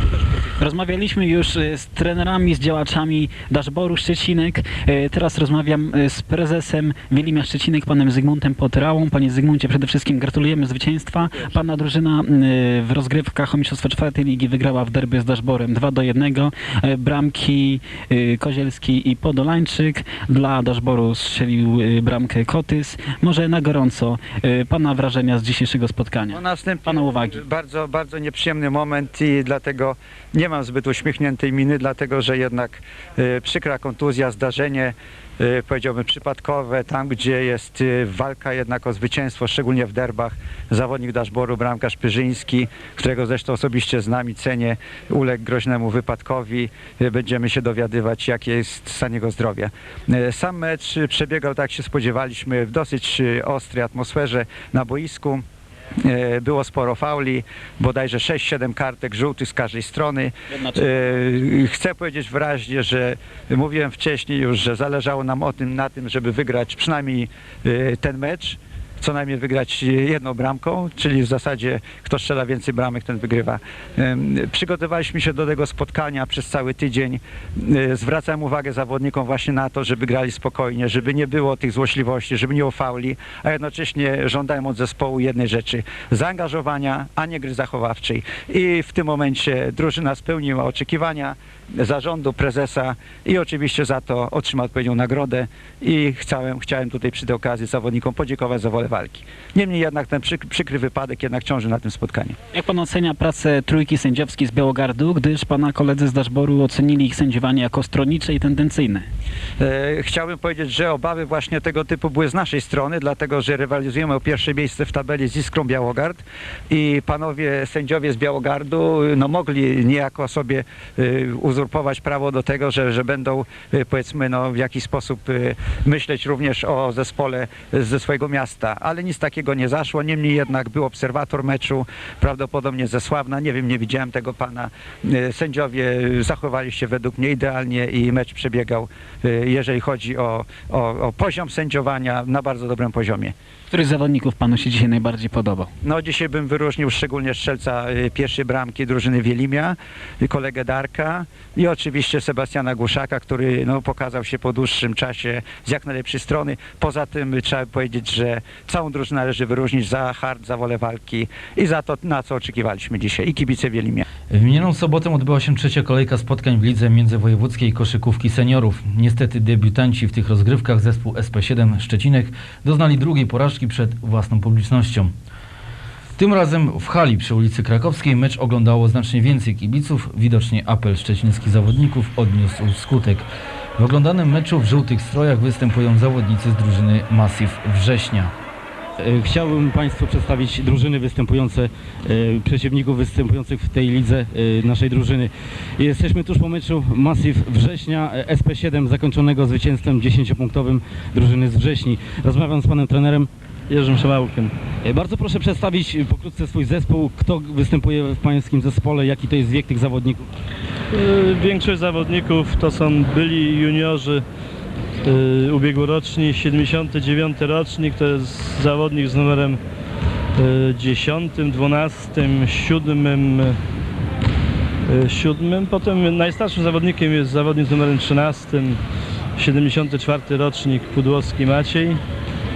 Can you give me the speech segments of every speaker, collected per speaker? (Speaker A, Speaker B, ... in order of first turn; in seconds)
Speaker A: 0.6-27.4, 102.5-109.1, 143.7-145.7
Speaker B: 26.3-55.4, 56.0-102.3, 109.6-143.3, 145.8-164.0
Speaker C: 164.3-175.1, 176.2-188.3
Speaker D: 189.0-203.3, 204.8-210.2
Speaker E: 203.7-204.5, 210.9-214.2, 215.0-219.6, 220.4-223.6, 224.9-228.8, 229.3-232.0